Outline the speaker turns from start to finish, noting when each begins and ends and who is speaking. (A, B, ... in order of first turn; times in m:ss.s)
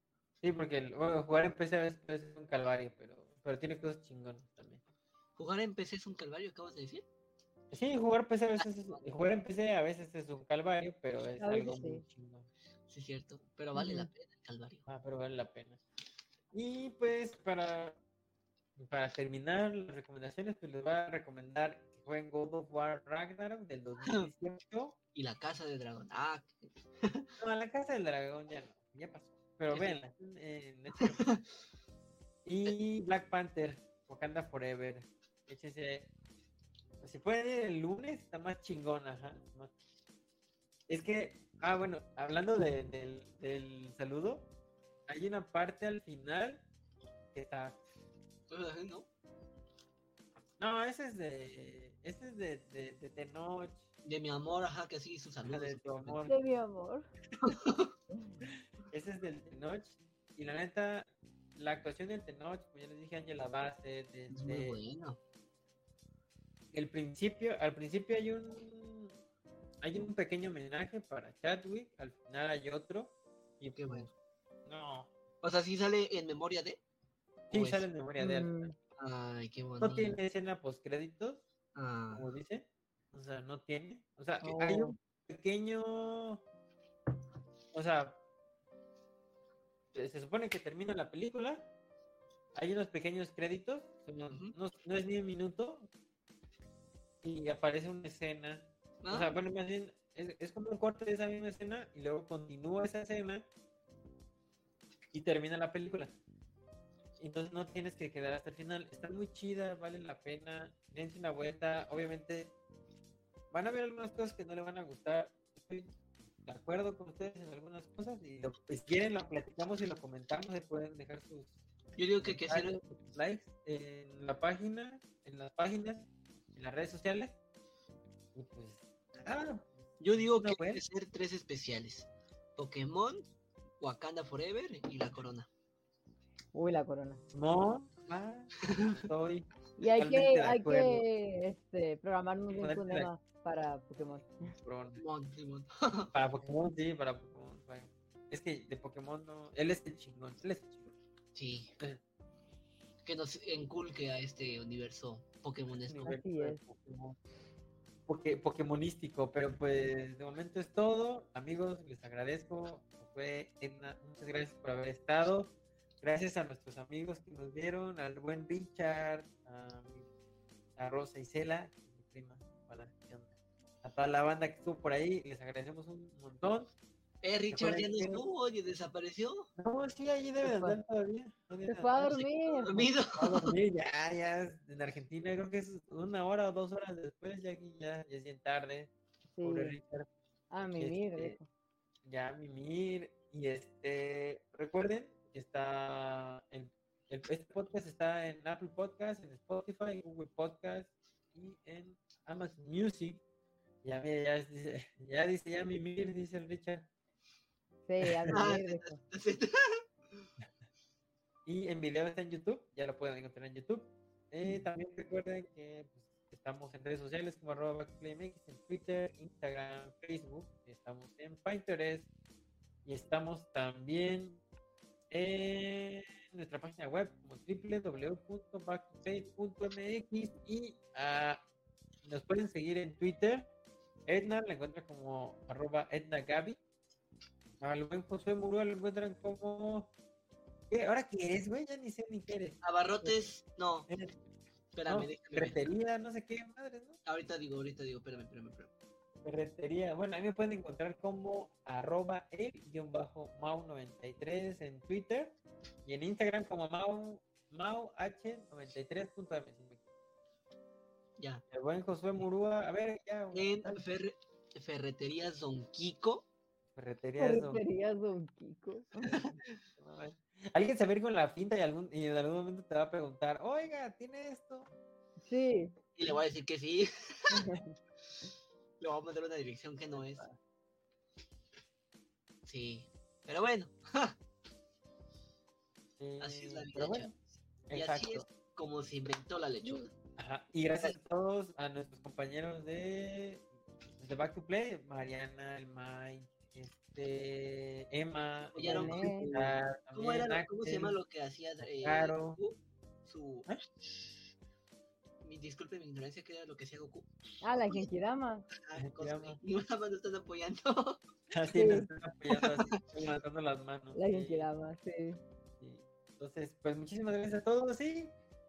0:00.4-0:04.8 A
0:05.4-0:07.1 B
0:07.7-0:12.5 A
0:08.6-0:09.0 B
0:11.4-0:12.0 C
0:12.9-0:14.9 B
0:13.8-0:14.1 C
0:14.9-0:15.8 A
0:16.5-0:18.0 A
0:18.8-0:25.0 A
0:24.0-0:24.3 B
0:25.2-0:27.3 B
0:27.4-0:31.3 A
0:29.7-0:30.0 B
0:31.0-0:31.4 B
0:32.4-0:36.1 A
0:37.0-0:39.7 A
0:40.9-0:44.5 A
0:45.1-0:46.6 A
0:47.3-0:47.8 A
0:48.5-0:49.1 B
0:50.6-0:53.8 A
0:54.0-0:56.3 B
0:55.5-0:56.4 A
0:56.3-0:57.1 C
0:57.4-0:57.9 B
0:58.4-1:04.8 A
1:04.3-1:05.2 B
1:06.7-1:09.2 A
1:09.8-1:14.1 A
1:13.8-1:14.1 B
1:14.7-1:15.1 A
1:15.4-1:16.8 B
1:17.5-1:18.7 A
1:17.5-1:17.9 B
1:18.2-1:18.7 C
1:19.0-1:20.2 B
1:19.8-1:21.4 A
1:21.8-1:22.3 B
1:22.1-1:26.4 A
1:24.4-1:25.0 C
1:27.7-1:28.2 A
1:29.9-1:31.7 A
1:32.5-1:35.9 A
1:37.2-1:43.4 A
1:39.0-1:39.4 B
1:45.1-1:46.2 A
1:47.2-1:52.5 A
1:53.5-1:55.9 A
1:56.5-2:01.6 A
2:02.0-2:02.8 B
2:02.2-2:07.4 A
2:08.4-2:10.8 A
2:10.0-2:13.2 B
2:13.8-2:15.5 B
2:16.5-2:17.2 C
2:17.3-2:21.0 A
2:19.8-2:24.5 C
2:22.5-2:23.1 A
2:24.6-2:25.0 A
2:25.0-2:26.1 B
2:26.1-2:30.9 A
2:31.4-2:31.7 B
2:33.0-2:36.1 B
2:35.8-2:37.2 A
2:36.0-2:36.6 C
2:38.1-2:50.1 A
2:50.8-2:53.3 A
2:53.8-2:56.7 A
2:57.2-2:59.5 B
2:57.5-2:58.2 A
2:59.6-3:08.9 A
3:00.4-3:00.8 C
3:01.7-3:02.8 C
3:02.5-3:03.5 B
3:09.3-3:09.8 C
3:09.4-3:10.1 A
3:10.5-3:11.5 C
3:10.8-3:11.4 A
3:12.0-3:23.2 A
3:23.8-3:26.9 A
3:27.9-3:29.0 C
3:28.0-3:28.3 A
3:28.3-3:29.8 B
3:31.5-3:42.1 A
3:42.8-3:44.4 A
3:45.1-3:51.4 A
3:52.0-3:53.5 A
3:54.1-3:56.6 A
3:57.6-3:59.9 A
4:00.7-4:03.2 A
4:02.6-4:03.9 B
4:03.9-4:04.1 A
4:04.7-4:05.6 B
4:04.9-4:07.0 A
4:07.0-4:08.7 B
4:09.2-4:19.8 A
4:21.2-4:21.4 B
4:21.5-4:23.8 A
4:23.3-4:26.3 B
4:26.8-4:27.6 A
4:27.2-4:29.2 C
4:29.1-4:29.6 B
4:29.2-4:34.7 A
4:35.2-4:35.7 C
4:36.0-4:37.5 B
4:37.3-4:37.8 C
4:38.8-4:40.3 B
4:40.0-4:40.4 A
4:42.4-4:44.2 B
4:46.0-4:47.1 A
4:46.2-4:47.2 B
4:47.7-4:48.3 A
4:47.7-4:49.9 B
4:50.2-4:53.4 A
4:54.0-5:01.0 A
4:58.6-5:03.5 B
4:58.6-4:59.4 C
5:01.6-5:02.4 A
5:05.2-5:07.1 B
5:07.4-5:08.5 C
5:08.6-5:11.0 B
5:08.8-5:09.4 A
5:11.3-5:14.5 A
5:11.6-5:11.9 C
5:12.3-5:12.8 B
5:14.0-5:15.2 C
5:15.6-5:18.1 A